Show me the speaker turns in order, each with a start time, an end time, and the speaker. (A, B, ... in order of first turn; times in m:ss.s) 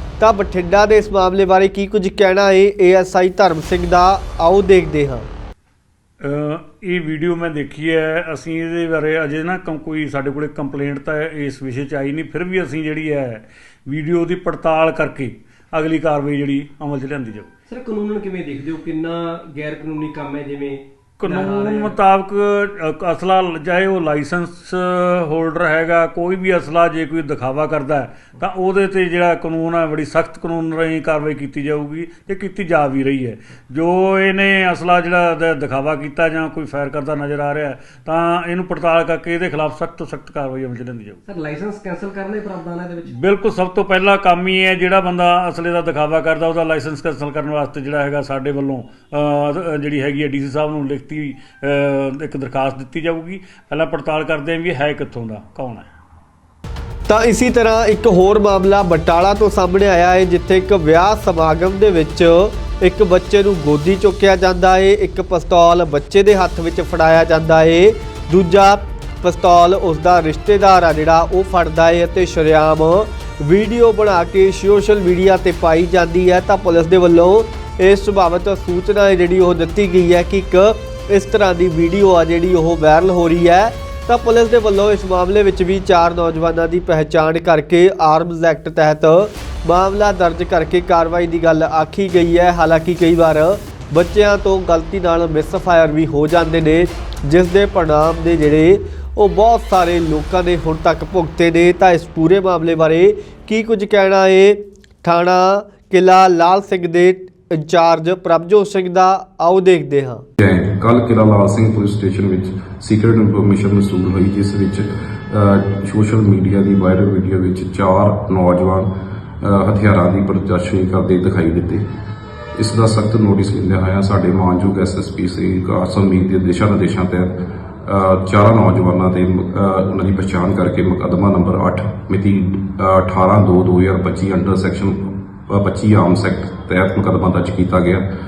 0:00.2-0:05.3 A
0:06.2-0:17.5 B
0:17.7-0:21.9 C
0:21.2-0:41.2 B
0:41.3-0:43.1 C
0:43.2-0:55.9 B
0:57.1-1:50.2 A
1:50.4-1:58.9 D
1:59.4-2:01.8 D
2:02.6-2:07.3 D
2:07.8-2:18.0 D